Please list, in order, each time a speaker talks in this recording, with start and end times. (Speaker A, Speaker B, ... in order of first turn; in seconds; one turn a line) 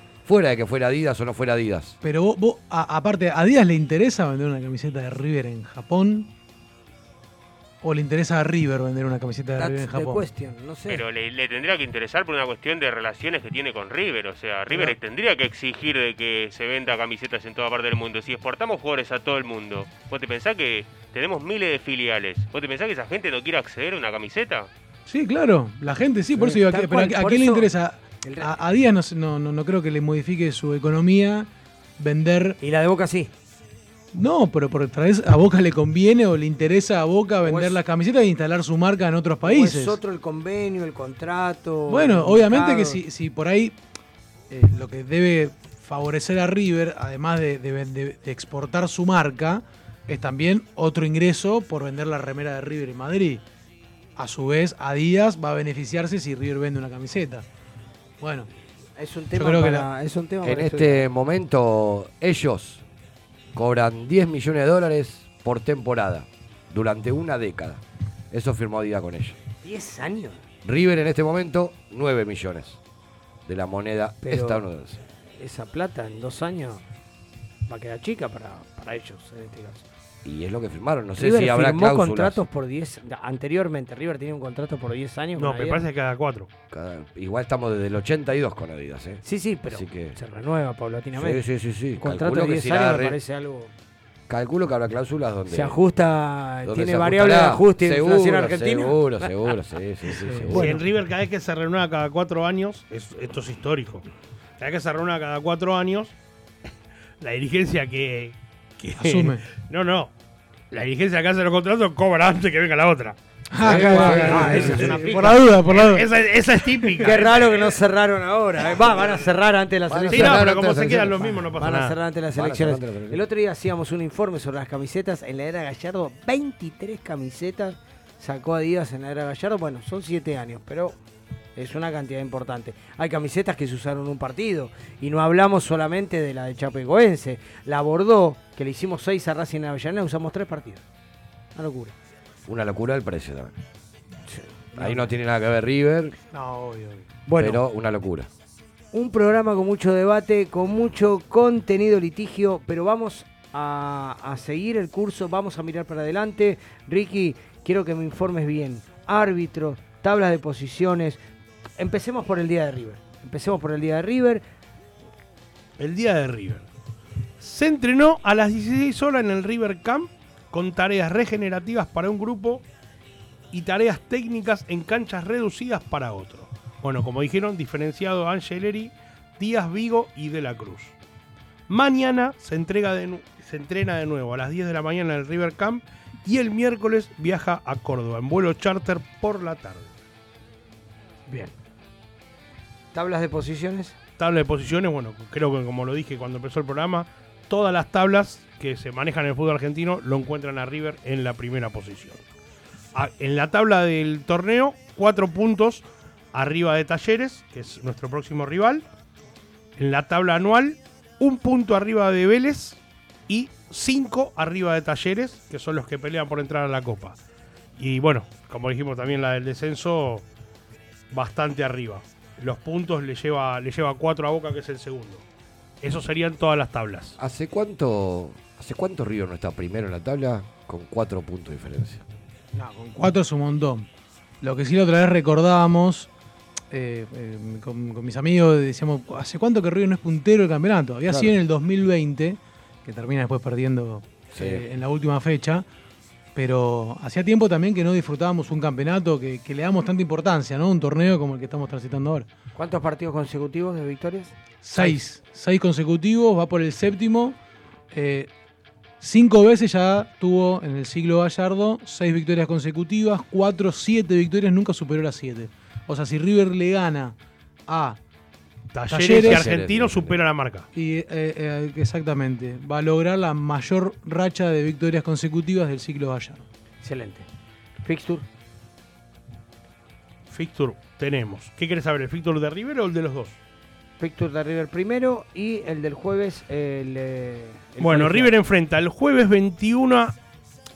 Speaker A: 0.2-2.0
Speaker B: 2.0-6.3
Speaker B: 7.8-10.2
Speaker C: 9.6-11.0
Speaker D: 10.9-24.7
Speaker B: 25.1-32.6
Speaker C: 26.4-27.7
Speaker C: 28.2-28.6
Speaker C: 32.6-33.3
Speaker B: 34.1-40.0
Speaker C: 37.4-37.8
Speaker C: 39.4-43.0
Speaker B: 41.9-43.8
Speaker B: 44.5-53.4
Speaker B: 54.2-57.5
Speaker B: 58.2-58.5
Speaker C: 59.0-61.1
Speaker B: 59.3-59.9
Speaker A: 60.4-62.8
Speaker A: 63.5-69.4
Speaker C: 69.6-70.4
Speaker A: 70.6-72.8
Speaker A: 73.5-75.0
Speaker C: 74.2-74.6
Speaker C: 75.4-76.8
Speaker C: 77.7-79.8
Speaker A: 80.2-82.4
Speaker C: 81.2-85.8
Speaker E: 85.4-86.5
Speaker A: 86.7-90.2
Speaker C: 89.2-91.4
Speaker A: 91.2-93.2
Speaker C: 92.0-93.7
Speaker A: 94.3-95.8
Speaker C: 95.5-99.3
Speaker A: 96.7-100.8
Speaker B: 100.2-100.8
Speaker E: 100.5-104.0
Speaker E: 104.6-106.1
Speaker E: 107.2-110.1
Speaker B: 109.0-109.4
Speaker E: 110.7-113.2
Speaker B: 113.5-116.1
Speaker A: 113.6-114.9
Speaker C: 113.6-115.4
Speaker E: 114.2-117.8
Speaker C: 117.0-120.5
Speaker A: 119.9-121.3
Speaker E: 120.1-122.0
Speaker C: 121.2-131.0
Speaker A: 122.3-123.2
Speaker C: 131.6-140.8
Speaker C: 141.6-141.9
Speaker A: 142.5-143.5
Speaker C: 144.3-145.0
Speaker A: 144.8-146.2
Speaker B: 146.3-147.1
Speaker C: 147.3-147.6
Speaker A: 147.4-148.3
Speaker C: 148.9-161.2
Speaker C: 161.8-164.4
Speaker E: 165.8-166.7
Speaker E: 167.4-172.6
Speaker E: 173.5-180.9
Speaker E: 181.7-189.9
Speaker C: 191.3-191.5
Speaker C: 192.9-193.9
Speaker E: 194.2-202.2
Speaker E: 202.9-208.8
Speaker E: 209.8-217.2
Speaker E: 217.8-220.2
Speaker E: 221.1-225.2
Speaker E: 225.8-227.2
Speaker A: 227.2-232.0
Speaker B: 232.5-233.9
Speaker B: 234.4-236.1
Speaker B: 236.7-245.7
Speaker A: 241.1-241.3
Speaker A: 244.3-244.7
Speaker B: 246.3-252.3
Speaker C: 252.6-255.0
Speaker B: 254.6-257.4
Speaker B: 257.9-258.3
Speaker B: 259.0-267.1
Speaker B: 267.7-268.0
Speaker E: 268.7-270.7
Speaker B: 268.9-269.5
Speaker A: 269.1-270.2
Speaker B: 270.7-276.4
Speaker C: 276.8-277.3
Speaker C: 277.8-278.2
Speaker E: 280.3-283.4
Speaker C: 284.0-288.3
Speaker E: 287.8-290.1